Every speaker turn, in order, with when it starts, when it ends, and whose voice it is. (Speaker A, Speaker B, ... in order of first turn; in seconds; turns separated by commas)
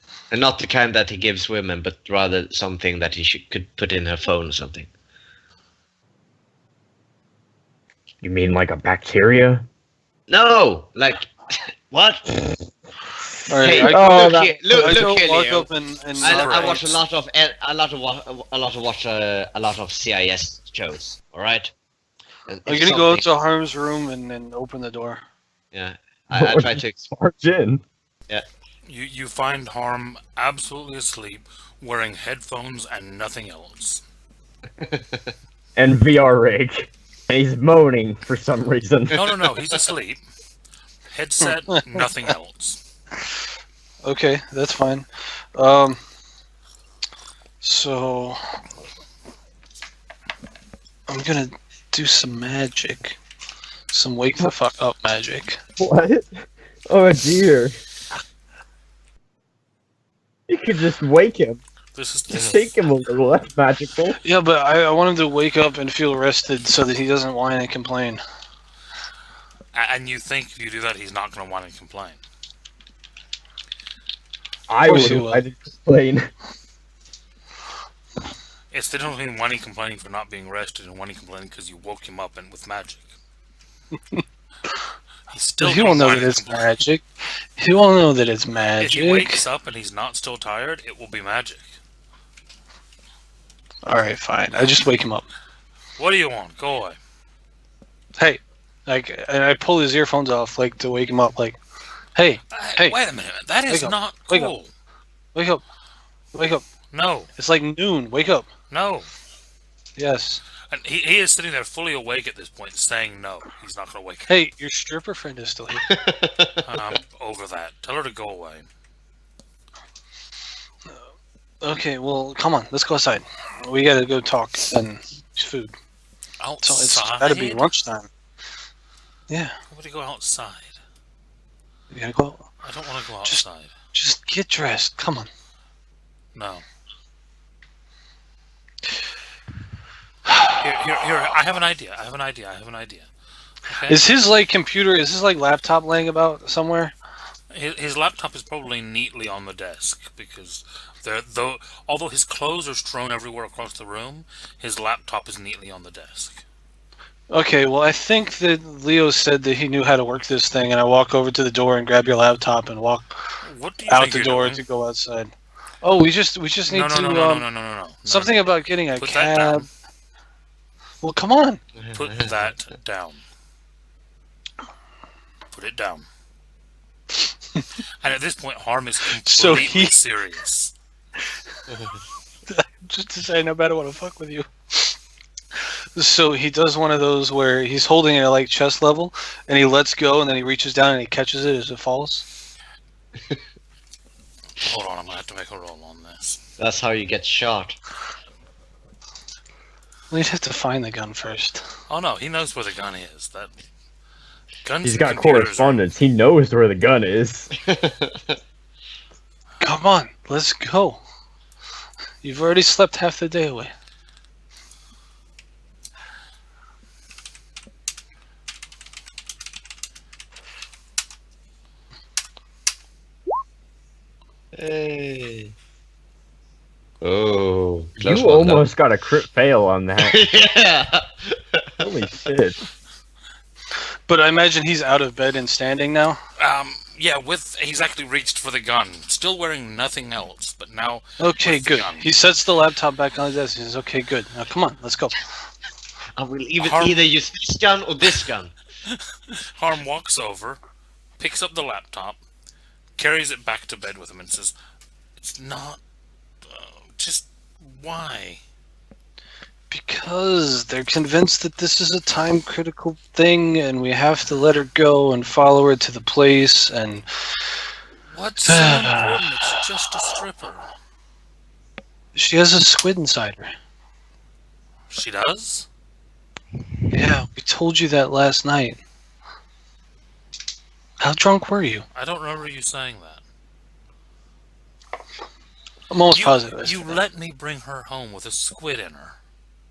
Speaker A: 0.3-4.9, Speaker B: 8.2-9.6, Speaker A: 10.3-11.3, Speaker A: 11.9-12.3, Speaker C: 13.5-17.0, Speaker A: 13.6-21.7, Speaker B: 13.8-14.6, Speaker D: 16.2-16.8, Speaker A: 22.5-23.3, Speaker C: 22.6-25.2, Speaker A: 25.7-27.1, Speaker B: 26.3-27.8, Speaker D: 28.8-34.0, Speaker A: 34.8-35.3, Speaker B: 35.8-39.4, Speaker D: 39.1-40.2, Speaker D: 41.1-42.8, Speaker C: 44.0-46.0, Speaker C: 47.6-48.4, Speaker C: 51.1-53.2, Speaker C: 53.9-55.6, Speaker B: 55.8-57.7, Speaker B: 60.5-61.6, Speaker D: 61.9-62.7, Speaker B: 62.3-64.2, Speaker C: 64.2-68.2, Speaker D: 69.7-72.2, Speaker B: 74.7-76.3, Speaker C: 74.8-75.4, Speaker D: 78.7-83.1, Speaker C: 84.0-84.8, Speaker D: 85.3-86.8, Speaker C: 85.6-87.0, Speaker C: 87.6-89.4, Speaker D: 88.8-91.7, Speaker C: 93.8-95.3, Speaker D: 96.0-97.0, Speaker C: 98.2-101.6, Speaker C: 102.1-103.0, Speaker D: 102.5-104.7, Speaker C: 103.7-104.5, Speaker C: 105.3-105.6, Speaker C: 106.3-106.6, Speaker D: 106.9-107.3, Speaker C: 107.4-108.5, Speaker D: 108.7-109.1, Speaker C: 110.0-110.4, Speaker D: 110.7-114.3, Speaker C: 114.3-115.8, Speaker A: 115.9-116.6, Speaker D: 116.6-118.7, Speaker C: 121.6-125.7, Speaker D: 126.4-127.6, Speaker C: 126.6-128.1, Speaker C: 129.3-129.6, Speaker D: 129.7-130.8, Speaker C: 131.9-132.5, Speaker D: 132.6-133.7, Speaker C: 133.2-135.3, Speaker D: 136.3-136.6, Speaker D: 140.6-143.1, Speaker D: 143.7-144.1, Speaker C: 143.9-146.9, Speaker D: 147.5-156.4, Speaker C: 157.3-163.2, Speaker D: 163.4-164.6, Speaker C: 163.9-167.5, Speaker D: 166.7-169.7, Speaker C: 168.1-169.7, Speaker C: 171.0-171.6, Speaker A: 171.8-172.3, Speaker D: 171.9-173.2, Speaker D: 175.5-176.1, Speaker D: 178.0-180.7, Speaker C: 179.2-179.9, Speaker A: 181.7-182.0, Speaker C: 182.5-184.9, Speaker C: 185.9-192.2, Speaker D: 194.6-196.4, Speaker A: 196.6-197.8, Speaker C: 200.1-201.6, Speaker D: 201.9-203.5, Speaker D: 204.6-205.8, Speaker B: 204.8-207.5, Speaker A: 207.7-208.4, Speaker C: 209.6-211.0, Speaker C: 212.2-213.7, Speaker A: 224.6-225.5, Speaker A: 227.0-228.7, Speaker B: 228.0-230.2, Speaker A: 230.0-231.6, Speaker B: 231.8-232.6, Speaker C: 234.1-236.2, Speaker D: 236.4-242.1, Speaker C: 241.2-245.2, Speaker A: 246.2-248.5, Speaker D: 246.6-247.1, Speaker D: 248.9-250.6, Speaker D: 251.2-252.2, Speaker D: 253.0-254.5, Speaker D: 255.2-255.8, Speaker D: 256.4-258.4, Speaker C: 259.7-267.4, Speaker D: 268.1-270.6, Speaker C: 268.4-269.2, Speaker C: 272.1-273.5, Speaker D: 274.9-275.7, Speaker C: 276.9-278.8, Speaker C: 281.0-281.8, Speaker D: 281.9-283.2, Speaker C: 285.9-287.0, Speaker D: 286.1-289.2